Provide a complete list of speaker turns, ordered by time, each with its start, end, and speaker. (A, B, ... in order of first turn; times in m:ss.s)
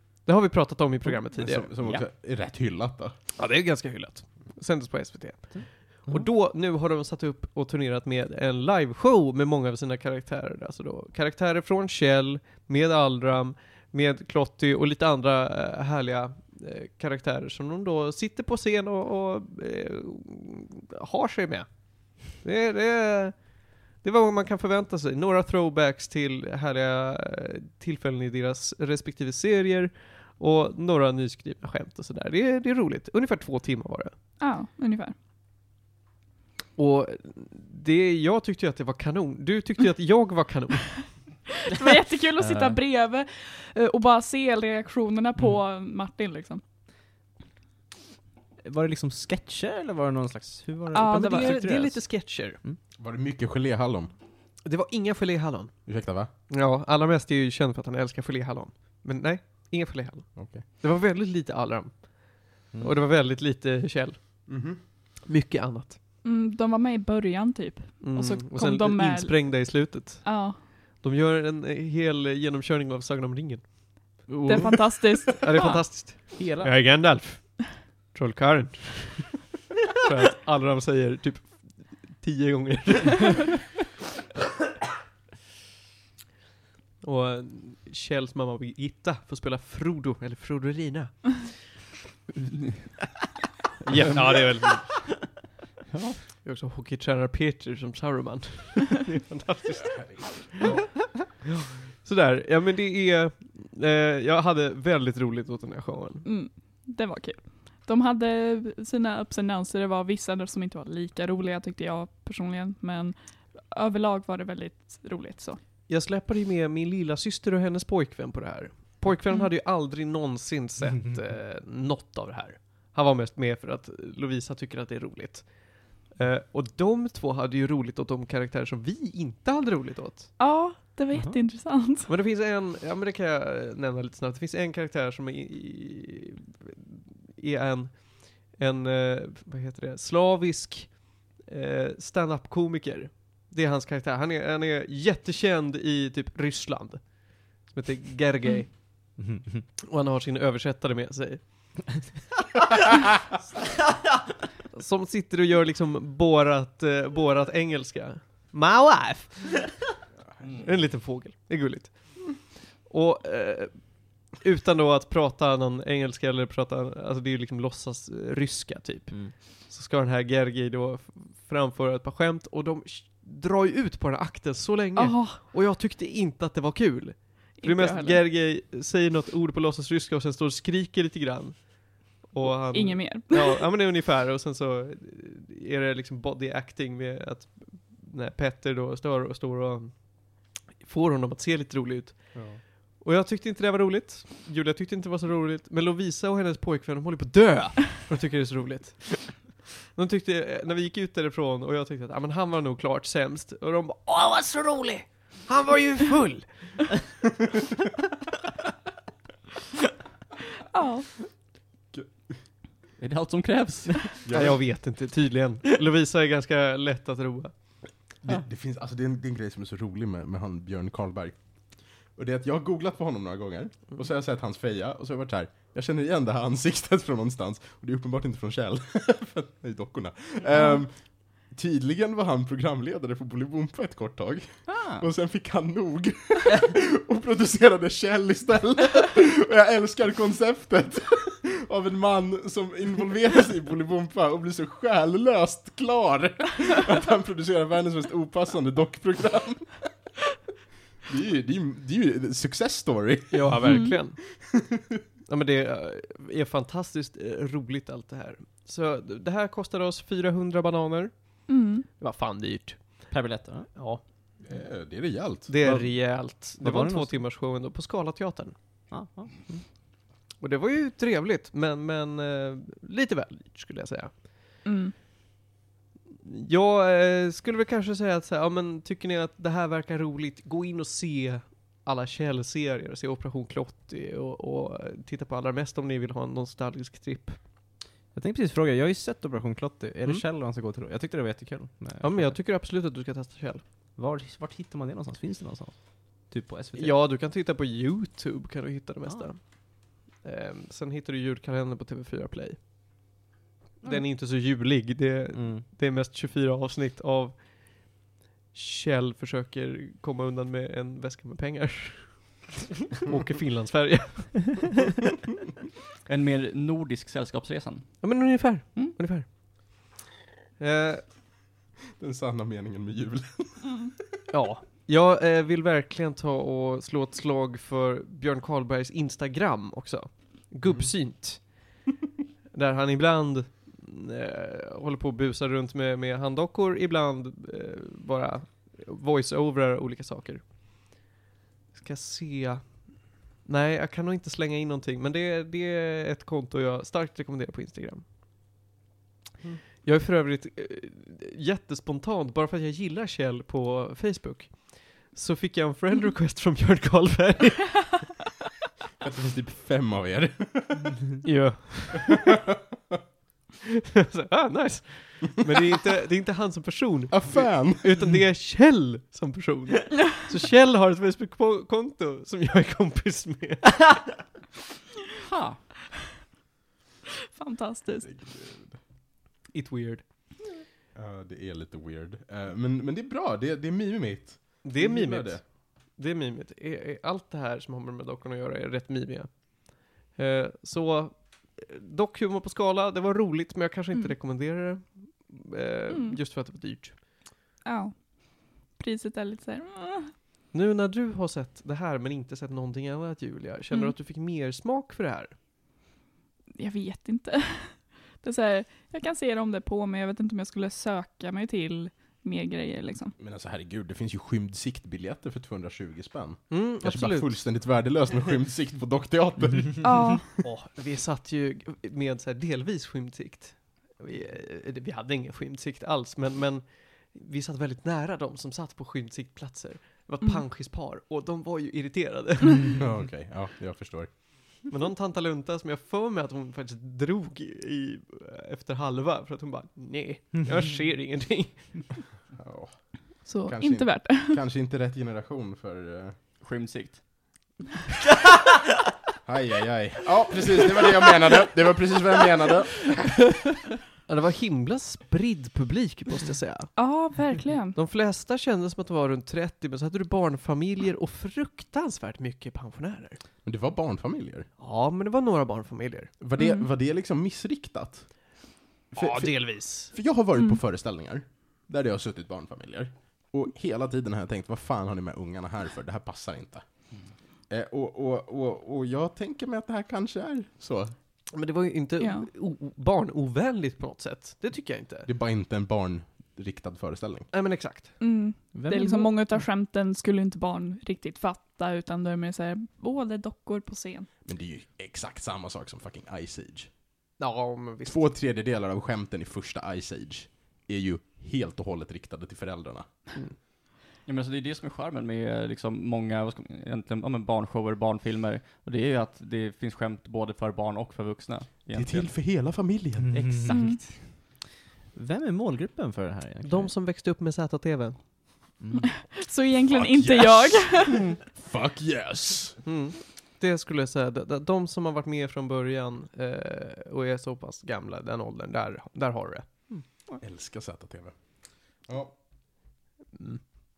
0:00.2-0:01.7 A
0:01.3-0:03.2 B
0:03.4-0:34.2 A
0:05.5-0:06.3 C
0:34.4-0:35.2 D
0:36.8-0:41.2 A
0:41.7-0:46.6 D
0:42.4-0:42.8 C
0:48.6-0:52.8 C
0:50.9-0:51.6 D
0:51.1-0:52.6 A
0:53.0-0:54.1 B
0:54.6-0:55.9 A
0:55.9-0:56.3 B
0:56.5-1:04.6 A
1:00.4-1:00.6 B
1:04.5-1:04.8 B
1:05.2-1:06.0 A
1:06.2-1:10.6 D
1:08.0-1:14.3 A
1:14.3-1:14.9 C
1:14.4-1:15.9 D
1:15.4-1:23.6 A
1:16.4-1:17.0 C
1:27.0-1:31.7 A
1:33.8-1:34.9 A
1:35.9-1:36.2 E
1:36.4-1:40.0 A
1:39.3-1:40.9 B
1:41.9-1:46.2 A
1:46.2-1:55.6 D
1:55.9-2:10.3 A
2:10.4-2:12.1 D
2:11.1-2:11.5 C
2:12.1-2:16.8 A
2:17.4-2:29.2 A
2:29.2-2:29.6 C
2:29.9-2:31.8 A
2:34.7-2:39.9 A
2:40.6-3:26.9 A
2:55.0-2:55.4 D
2:57.6-2:58.2 D
3:02.4-3:03.7 D
3:30.7-3:31.1 D
3:33.0-3:34.5 E
3:34.2-3:34.6 B
3:34.3-3:37.8 A
3:38.2-4:09.9 B
3:50.5-3:50.8 D
3:54.7-3:55.1 E
4:11.1-4:13.7 B
4:13.3-4:14.2 A
4:13.7-4:14.0 D
4:15.3-4:23.1 A
4:21.5-4:21.9 D
4:23.1-4:23.8 C
4:23.8-4:24.0 A
4:24.4-4:25.5 B
4:25.5-4:28.5 A
4:25.6-4:27.2 C
4:28.9-4:29.7 C
4:30.4-4:34.2 A
4:34.6-4:34.9 D
4:36.2-4:47.4 A
4:48.1-4:52.4 C
4:52.0-4:53.6 A
4:54.0-4:57.0 C
4:56.8-5:02.6 A
5:03.8-5:08.0 A
5:05.3-5:05.6 C
5:08.5-5:14.7 A
5:16.1-5:18.9 E
5:18.0-5:19.3 A
5:20.6-5:21.0 A
5:22.0-5:23.7 B
5:24.3-5:31.8 A
5:32.5-5:41.0 A
5:41.7-5:48.0 A
5:49.5-5:58.0 A
5:59.0-6:01.2 B
6:01.2-6:02.2 A
6:04.0-6:13.8 A
6:07.1-6:08.0 B
6:15.2-6:15.6 E
6:17.3-6:18.1 D
6:18.1-6:18.8 B
6:19.5-6:20.0 A
6:21.0-6:25.4 B
6:24.6-6:37.0 A
6:35.9-6:36.2 D
6:37.6-6:40.1 D
6:40.5-6:45.4 A
6:46.6-6:53.2 D
6:53.2-7:00.3 B
6:56.5-6:57.6 A
6:59.8-7:00.2 D
7:00.4-7:12.8 A
7:12.7-7:14.2 B
7:14.7-7:22.1 A
7:22.4-7:26.2 B
7:23.2-7:24.4 D
7:26.4-7:27.2 E
7:29.2-7:33.3 B
7:34.1-7:37.1 A
7:36.8-7:37.8 D
7:37.7-7:43.2 A
7:43.4-7:44.5 B
7:44.6-7:46.1 A
7:46.2-7:48.4 B
7:46.4-7:46.7 D
7:48.9-7:57.0 B
7:49.0-7:49.9 A
7:57.5-8:01.0 B
8:01.3-8:05.1 A
8:02.0-8:02.3 D
8:05.1-8:07.3 B
8:07.3-8:07.9 A
8:08.0-8:14.1 D
8:08.5-8:09.4 C
8:14.2-8:16.7 B
8:17.2-8:18.0 A
8:17.8-8:22.9 B
8:24.1-8:32.1 E
8:31.7-8:33.3 B
8:33.1-8:33.9 C
8:33.1-8:33.7 E
8:33.5-8:33.8 D
8:34.9-8:36.7 C
8:36.4-8:38.0 A
8:38.6-8:38.9 C
8:38.8-8:41.1 D
8:39.7-8:42.6 B
8:42.6-8:49.7 A
8:50.2-8:52.2 B
8:53.2-8:53.4 A